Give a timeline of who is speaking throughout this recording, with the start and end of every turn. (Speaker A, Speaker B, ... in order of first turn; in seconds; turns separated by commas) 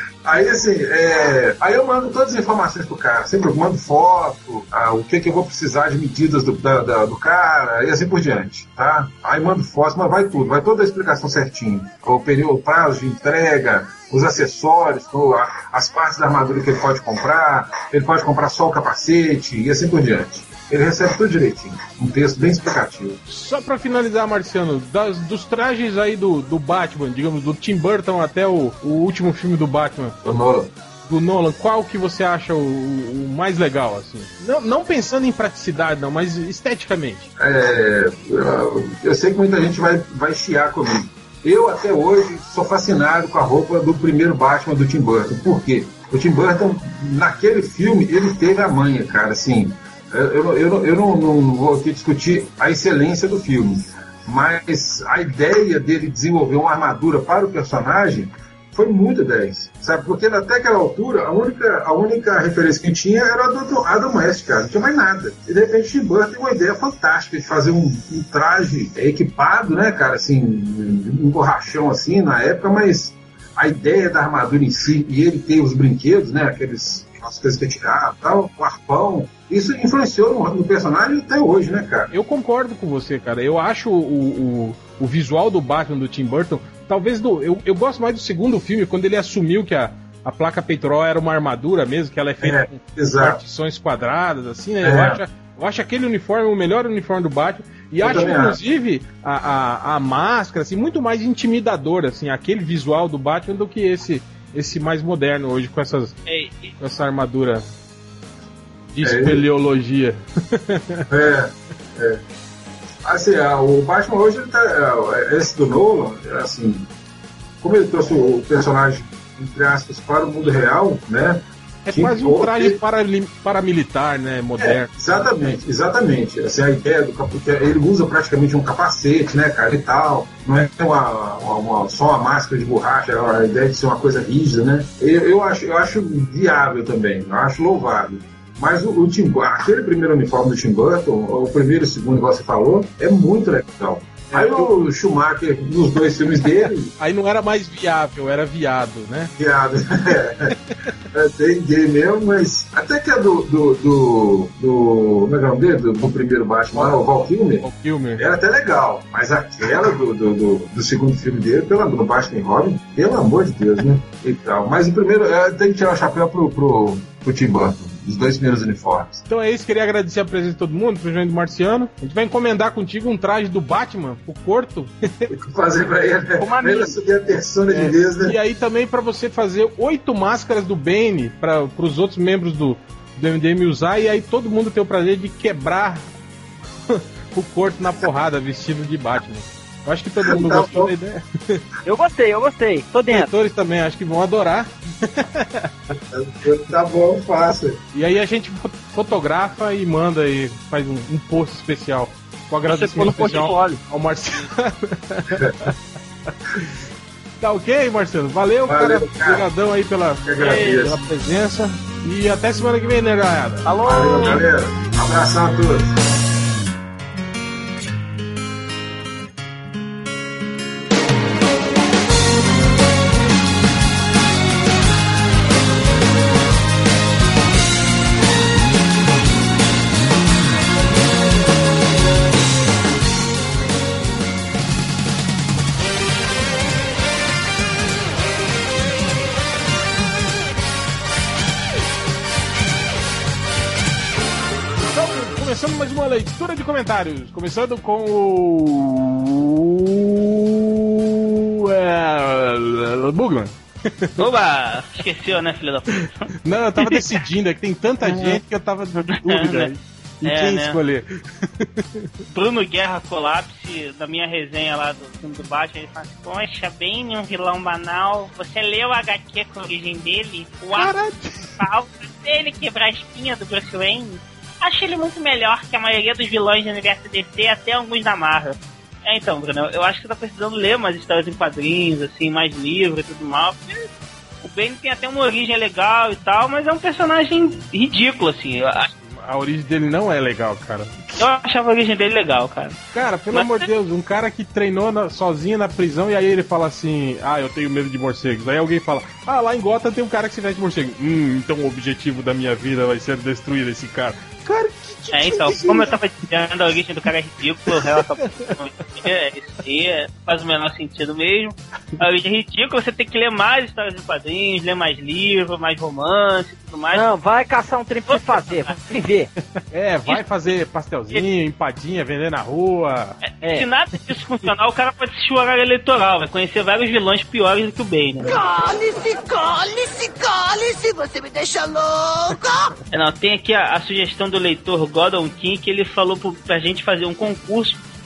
Speaker A: 0.2-23.2, Speaker B: 23.3-30.2, Speaker A: 30.2-30.7, Speaker B: 31.1-37.3, Speaker A: 37.4-82.1, Speaker B: 82.1-106.2, Speaker A: 92.4-93.4, Speaker A: 94.8-95.2, Speaker A: 98.0-98.6, Speaker C: 106.3-106.7, Speaker B: 106.8-107.7, Speaker B: 108.9-111.1, Speaker A: 109.0-109.4, Speaker A: 111.1-112.2, Speaker A: 113.0-116.9, Speaker A: 117.6-122.8, Speaker B: 121.9-124.9, Speaker A: 124.6-146.9, Speaker B: 144.3-144.7, Speaker B: 147.0-149.3, Speaker A: 149.4-150.6, Speaker A: 151.1-157.7, Speaker B: 157.6-158.2, Speaker A: 158.2-169.2, Speaker B: 169.3-175.3, Speaker A: 175.3-178.4, Speaker D: 176.4-176.9, Speaker B: 177.7-186.1, Speaker B: 186.9-191.6, Speaker A: 190.2-190.9, Speaker D: 191.8-193.3, Speaker B: 193.1-195.7, Speaker A: 195.9-197.8, Speaker B: 197.9-205.7, Speaker D: 202.7-203.8, Speaker B: 206.5-206.8, Speaker B: 207.4-213.7, Speaker A: 208.7-209.5, Speaker A: 210.2-211.0, Speaker D: 210.4-210.7, Speaker D: 213.7-214.4, Speaker A: 213.8-216.0, Speaker B: 244.8-254.2, Speaker C: 254.2-257.2, Speaker B: 256.4-262.1, Speaker C: 258.0-258.4, Speaker C: 259.1-259.7, Speaker C: 260.2-260.8, Speaker C: 262.3-270.9, Speaker B: 270.8-271.6, Speaker C: 271.6-283.9, Speaker C: 284.4-288.9, Speaker B: 289.1-291.1, Speaker C: 291.2-292.8, Speaker B: 292.9-306.0, Speaker C: 293.3-293.7, Speaker C: 305.1-317.1, Speaker B: 307.7-308.6, Speaker D: 316.9-319.3, Speaker C: 318.1-318.6, Speaker B: 319.7-323.2, Speaker C: 323.2-328.4, Speaker D: 323.4-323.7, Speaker E: 328.3-332.6, Speaker C: 332.9-337.8